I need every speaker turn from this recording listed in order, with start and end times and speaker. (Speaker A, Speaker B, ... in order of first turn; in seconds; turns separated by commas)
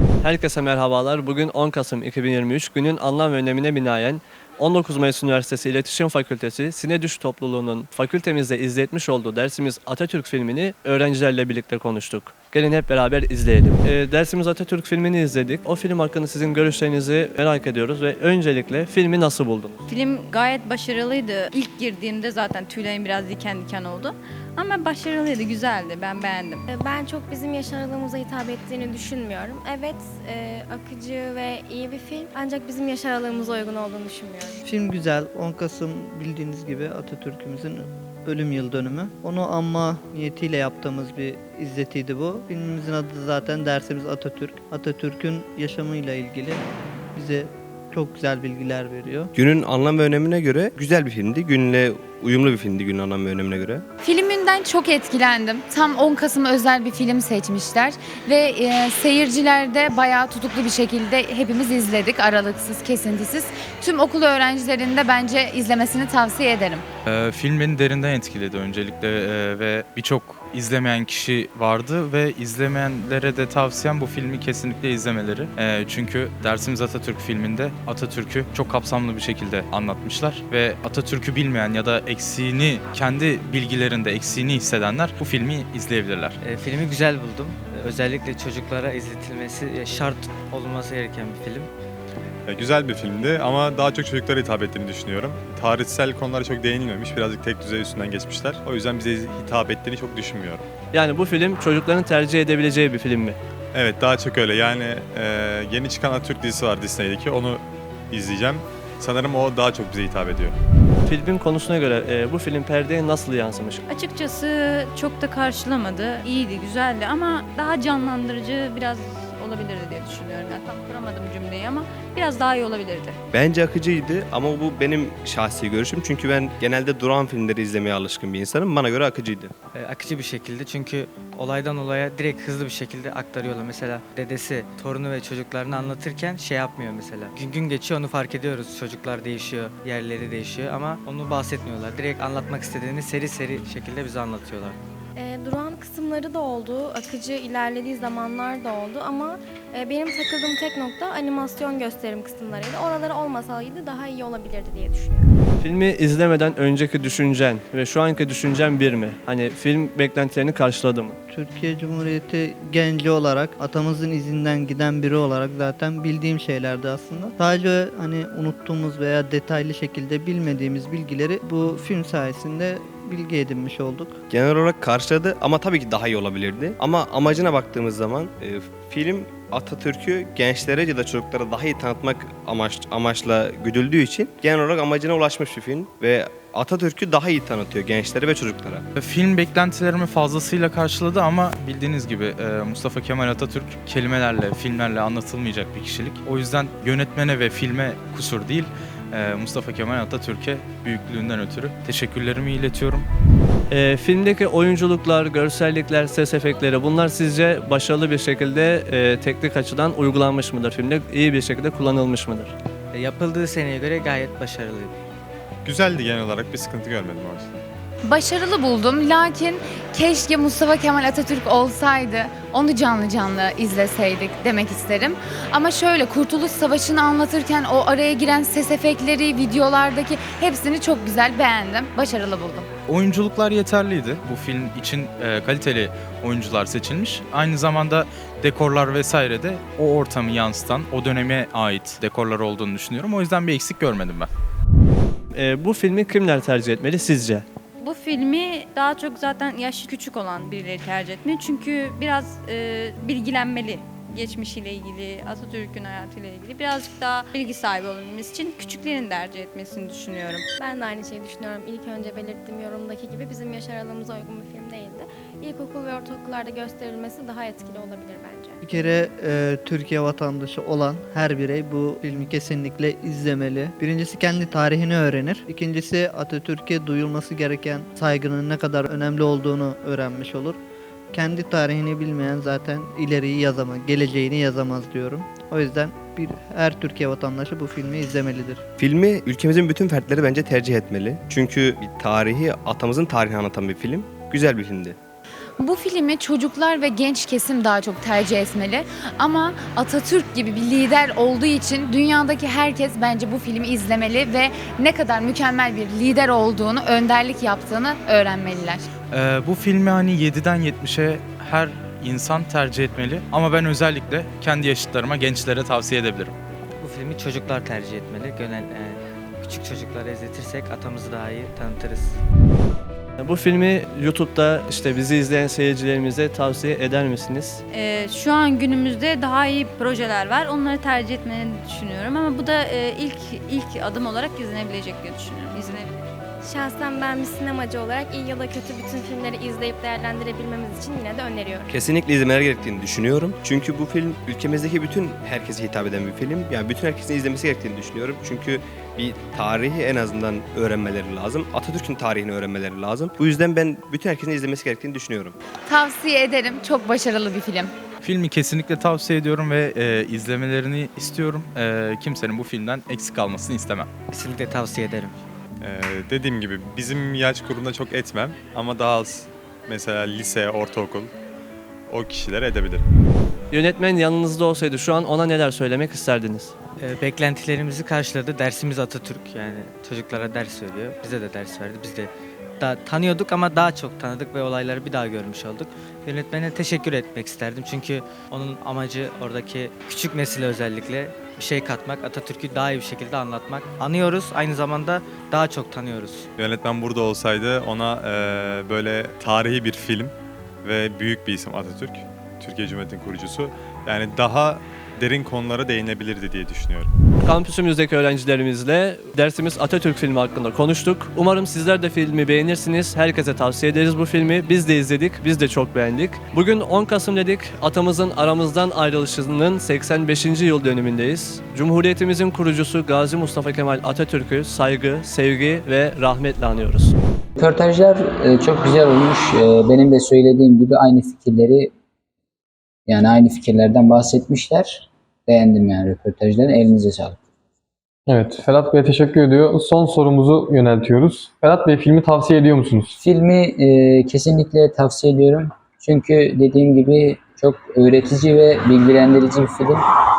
Speaker A: 0.2-19.8, Speaker B: 19.9-26.6, Speaker C: 26.7-34.6, Speaker D: 34.6-46.6, Speaker D: 47.1-49.3, Speaker E: 49.3-53.8, Speaker F: 54.0-66.8, Speaker G: 67.0-86.4, Speaker H: 86.4-91.7, Speaker I: 92.5-100.7, Speaker A: 100.9-103.4, Speaker I: 103.7-110.5, Speaker A: 111.0-113.8, Speaker B: 113.9-123.2, Speaker E: 123.3-129.5, Speaker H: 129.7-144.8, Speaker C: 145.2-155.3, Speaker A: 155.6-161.2, Speaker D: 161.3-174.2, Speaker E: 174.3-188.8, Speaker G: 188.9-203.1, Speaker A: 203.7-212.5, Speaker H: 212.9-214.9, Speaker I: 215.6-217.5, Speaker F: 218.0-232.7, Speaker G: 232.9-244.3, Speaker A: 245.3-247.4, Speaker B: 247.8-260.4, Speaker C: 260.6-268.6, Speaker D: 268.6-280.6, Speaker D: 281.1-288.6, Speaker E: 288.8-295.0, Speaker F: 295.6-308.9, Speaker G: 309.1-316.3, Speaker H: 316.8-322.2, Speaker A: 323.2-327.6, Speaker B: 327.7-336.0, Speaker C: 336.4-341.8, Speaker E: 341.7-355.4, Speaker F: 355.7-357.7, Speaker G: 358.0-363.9, Speaker H: 364.1-365.2, Speaker I: 365.6-371.1, Speaker I: 371.9-372.9, Speaker A: 373.5-376.5, Speaker H: 376.8-396.3, Speaker I: 396.4-406.9, Speaker A: 407.2-426.9, Speaker J: 427.4-431.7, Speaker J: 432.9-437.2, Speaker K: 438.1-442.9, Speaker J: 443.0-449.8